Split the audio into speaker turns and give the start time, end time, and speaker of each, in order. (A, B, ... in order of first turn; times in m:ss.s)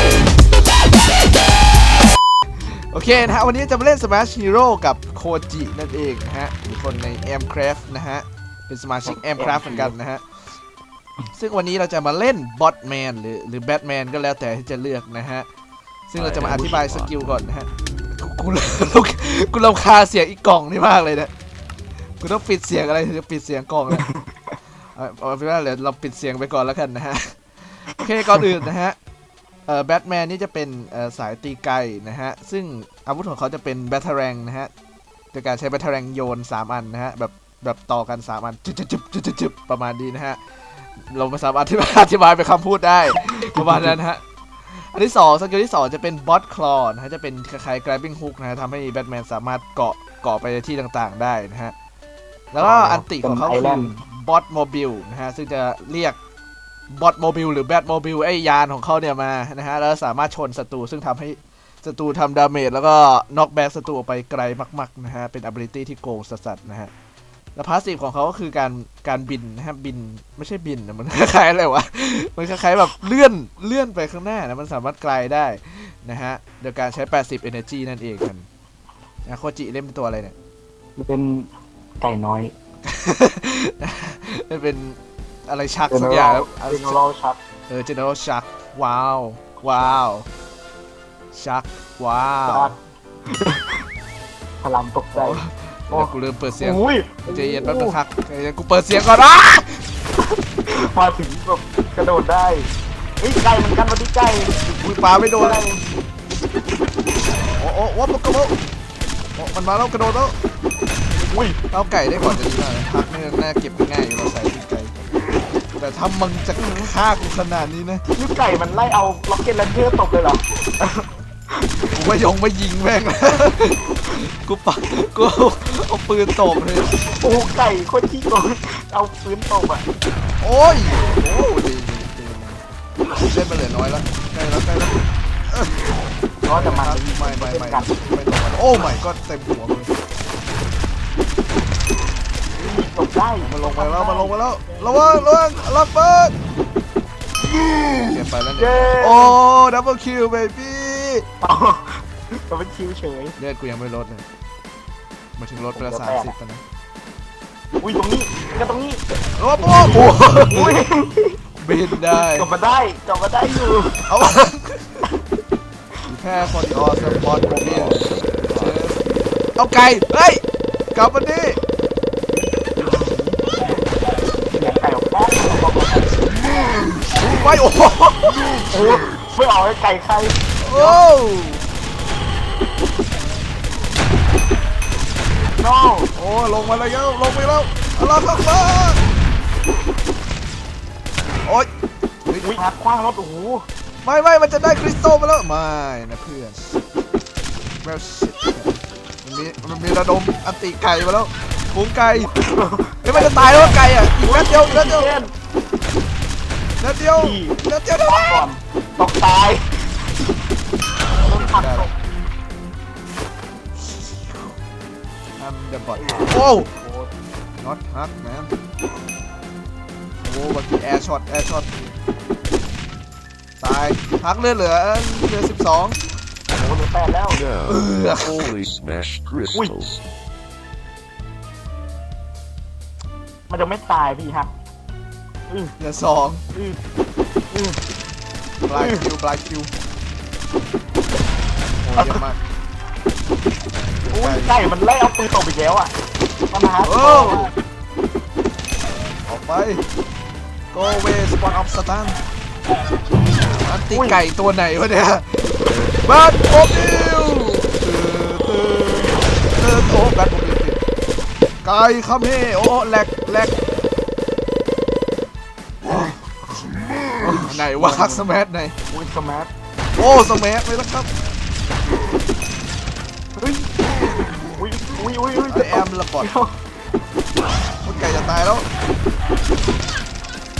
0:02.9-0:10.2 A
0:09.0-0:09.9 B
0:11.3-0:15.4 A
0:16.1-0:21.3 A
0:16.1-0:17.4 C
0:22.2-0:24.0 A
0:23.9-0:24.3 B
0:25.0-0:27.4 A
0:27.9-0:29.0 A
0:28.2-0:28.6 B
0:29.7-0:34.7 A
0:35.3-0:40.4 A
0:41.1-0:44.2 A
0:43.4-0:43.9 B
0:44.8-0:51.7 A
0:52.5-0:56.2 A
0:52.6-0:53.9 B
0:56.9-1:06.9 A
1:07.6-1:18.4 A
1:19.2-1:20.3 A
1:21.0-1:21.5 B
1:22.0-1:22.5 B
1:22.8-1:27.0 A
1:25.9-1:27.4 B
1:27.7-1:30.2 A
1:31.3-1:32.7 A
1:32.5-1:33.8 B
1:34.6-1:38.0 B
1:35.1-1:39.8 A
1:40.6-1:44.6 B
1:44.7-1:45.6 A
1:45.2-1:45.8 B
1:47.6-1:48.5 A
1:49.4-1:50.3 A
1:51.2-1:51.6 B
1:51.7-1:54.9 A
1:55.8-1:58.0 A
1:56.6-1:56.9 B
1:58.1-2:02.0 B
2:01.9-2:07.1 A
2:07.2-2:09.8 B
2:10.4-2:12.6 A
2:13.2-2:15.7 A
2:16.4-2:17.9 B
2:16.4-2:20.0 A
2:22.5-2:25.3 B
2:23.4-2:26.4 A
2:27.9-2:31.2 A
2:28.5-2:29.4 B
2:31.4-2:33.3 B
2:33.4-2:34.2 A
2:35.4-2:36.6 A
2:35.7-2:36.4 B
2:37.8-2:39.0 B
2:39.4-2:40.8 A
2:39.6-2:41.4 B
2:41.6-2:42.5 A
2:42.0-2:44.1 B
2:44.0-2:45.0 A
2:46.1-2:49.0 A
2:47.0-2:48.8 C
2:49.6-2:50.4 A
2:50.9-2:51.6 A
2:52.4-2:53.8 B
2:54.5-2:56.2 B
2:57.1-2:58.5 A
2:58.7-3:01.0 B
3:00.6-3:01.6 A
3:05.6-3:06.1 B
3:06.1-3:09.0 A
3:12.3-3:12.6 A
3:12.4-3:13.7 B
3:14.0-3:16.8 A
3:17.8-3:22.3 A
3:22.2-3:25.3 B
3:23.0-3:25.2 A
3:26.8-3:28.4 A
3:27.2-3:29.8 B
3:31.2-3:31.9 A
3:31.2-3:31.9 B
3:33.8-3:34.5 A
3:35.4-3:36.7 A
3:36.0-3:37.1 B
3:37.6-3:38.5 A
3:40.2-3:41.7 A
3:43.6-3:46.0 A
3:46.5-3:47.4 B
3:47.3-3:50.0 C
3:47.6-3:48.5 A
3:53.5-3:54.5 B
3:55.8-3:56.4 A
3:57.5-3:57.8 B
3:58.6-3:59.7 A
3:58.7-3:59.0 B
4:01.8-4:02.4 A
4:04.0-4:04.6 A
4:04.1-4:05.9 B
4:06.5-4:07.5 B
4:06.8-4:07.5 A
4:09.2-4:09.8 A
4:10.7-4:12.2 A
4:13.4-4:20.8 A
4:13.9-4:14.2 B
4:21.6-4:23.6 A
4:25.8-4:26.1 A
4:25.9-4:26.1 B
4:27.2-4:28.8 A
4:27.2-4:28.2 B
4:28.9-4:29.5 B
4:30.0-4:31.1 A
4:33.4-4:33.7 B
4:34.4-4:36.5 B
4:35.5-4:36.3 A
4:37.8-4:38.6 A